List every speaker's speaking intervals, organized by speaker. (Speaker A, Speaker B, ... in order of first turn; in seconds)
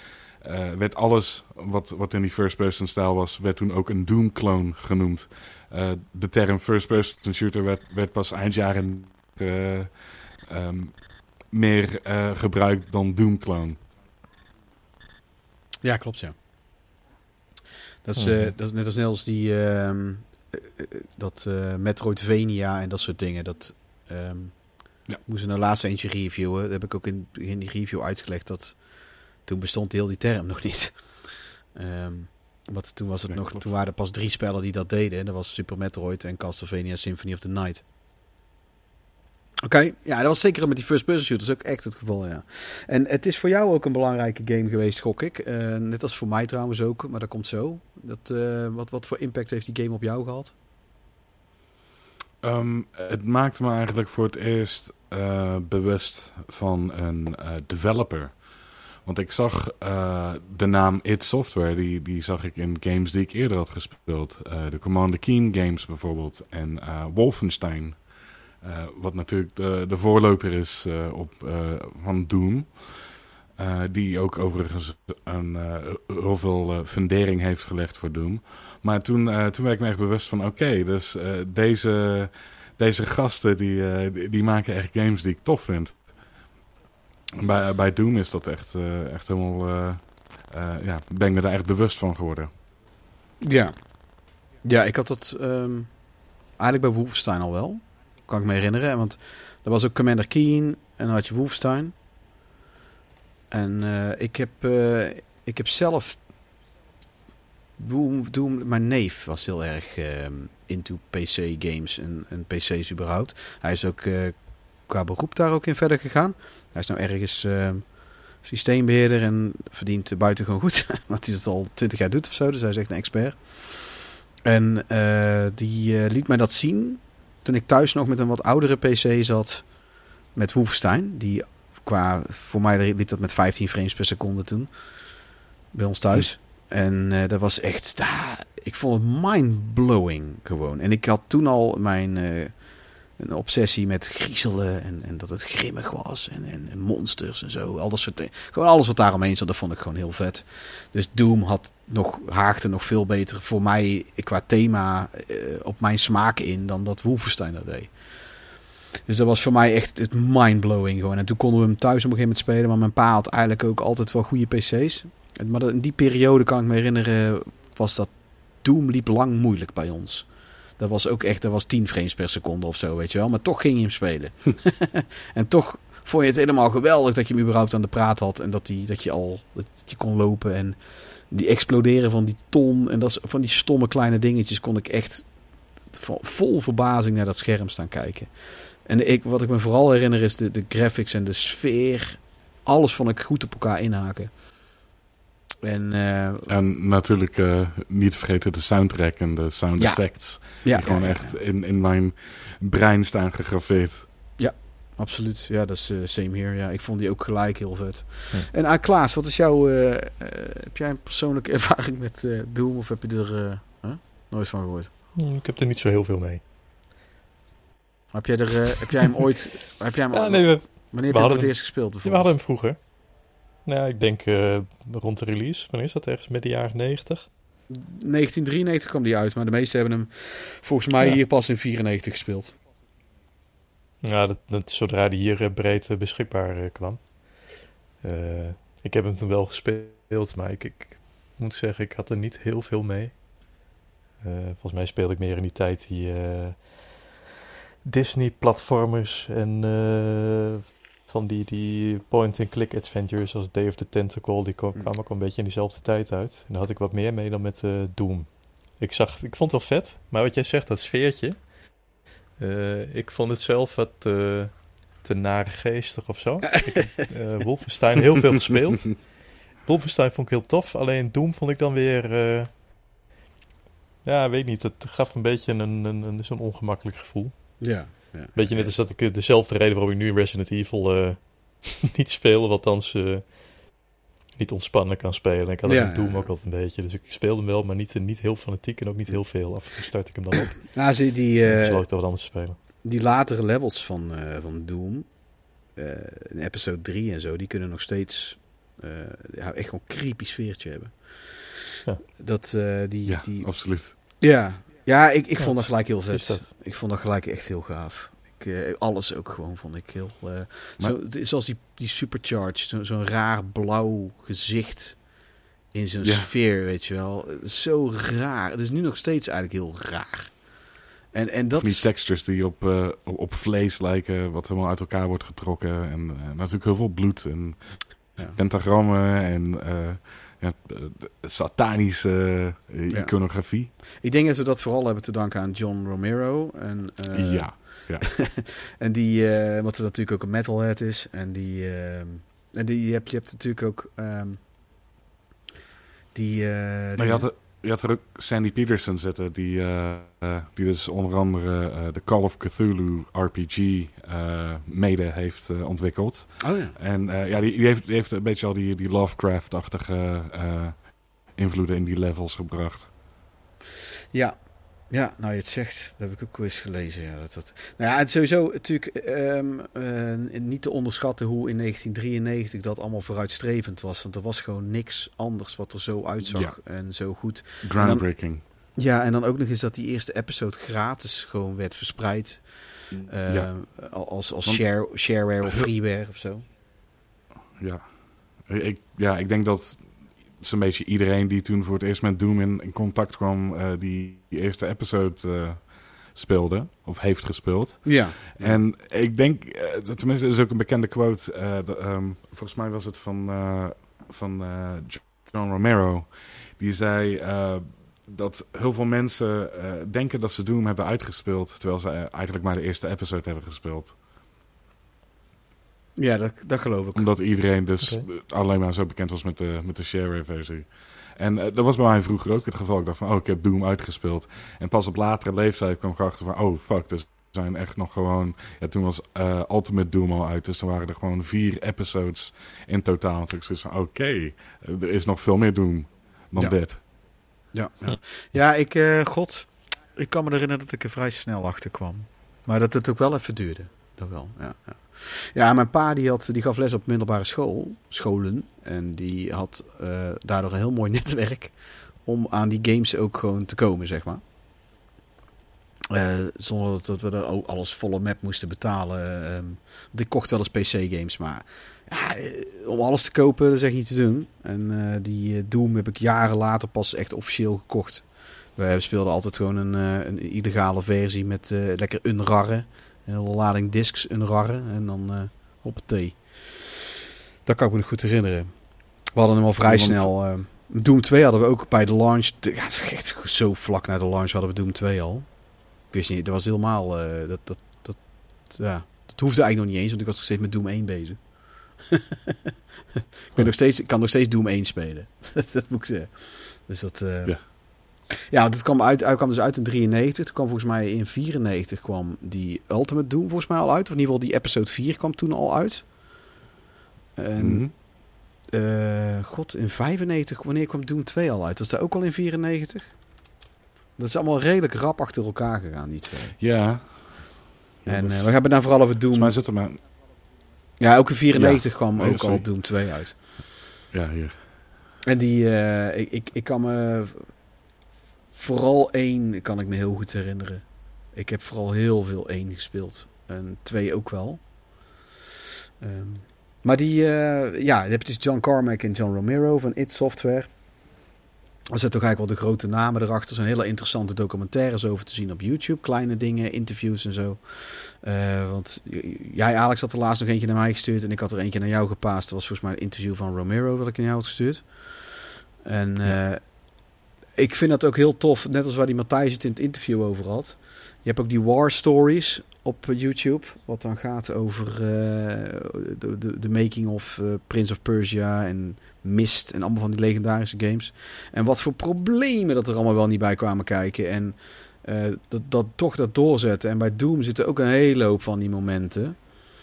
Speaker A: 0.4-13.8, 33.3-33.5, 52.4-58.4, 59.0-68.1, 68.6-86.1, 87.4-92.5, 196.5-204.1, 303.1-303.9, 316.0-316.3, 321.6-333.7, 337.1-338.1, 347.0-362.9, 376.3-376.5, 377.6-378.4, 382.9-383.5, 385.4-385.7, 387.6-414.0, 416.9-436.8, 479.7-480.1, 507.4-507.7, 516.4-518.3, 519.1-519.8, 521.3-522.5, 523.9-524.4
Speaker B: 15.8-16.3, 18.1-24.6, 25.3-28.8, 29.4-31.0, 31.7-37.8, 39.6-50.5, 93.4-93.7, 94.6-95.9, 96.6-101.9, 103.5-106.2, 107.8-114.4, 114.9-117.8, 118.4-129.6, 130.3-134.7, 135.7-142.5, 143.2-157.9, 159.1-168.1, 168.6-170.3, 170.8-180.8, 181.3-185.2, 185.9-188.3, 188.9-194.3, 195.6-196.5, 199.8-201.3, 204.4-214.9, 218.1-222.3, 227.7-232.5, 277.6-278.7, 285.6-286.3, 290.6-291.8, 292.8-295.1, 295.8-303.5, 304.2-315.0, 315.7-320.3, 321.1-321.9, 334.0-344.4, 346.1-347.2, 356.4-356.8, 364.9-378.1, 378.8-382.5, 383.1-386.4, 397.8-398.6, 416.0-417.1, 437.5-451.5, 452.0-454.2, 455.9-468.0, 468.6-476.8, 477.5-478.5, 479.1-485.3, 485.9-491.2, 491.9-492.5, 493.3-497.5, 498.1-505.8, 507.2-507.7, 508.5-512.9, 514.0-516.4, 517.9-519.3, 520.8-523.1, 525.0-527.3, 528.3-530.6, 531.1-534.4, 535.8-540.5, 541.7-554.7, 555.6-556.4, 557.4-579.2
Speaker C: 18.2-18.5, 215.1-216.4, 220.1-222.8, 223.6-227.3, 234.0-237.1, 238.0-243.2, 244.2-247.0, 247.8-261.4, 262.4-272.5, 274.0-277.4, 278.3-283.4, 284.4-290.7, 291.4-292.6, 305.4-306.5, 417.8-418.1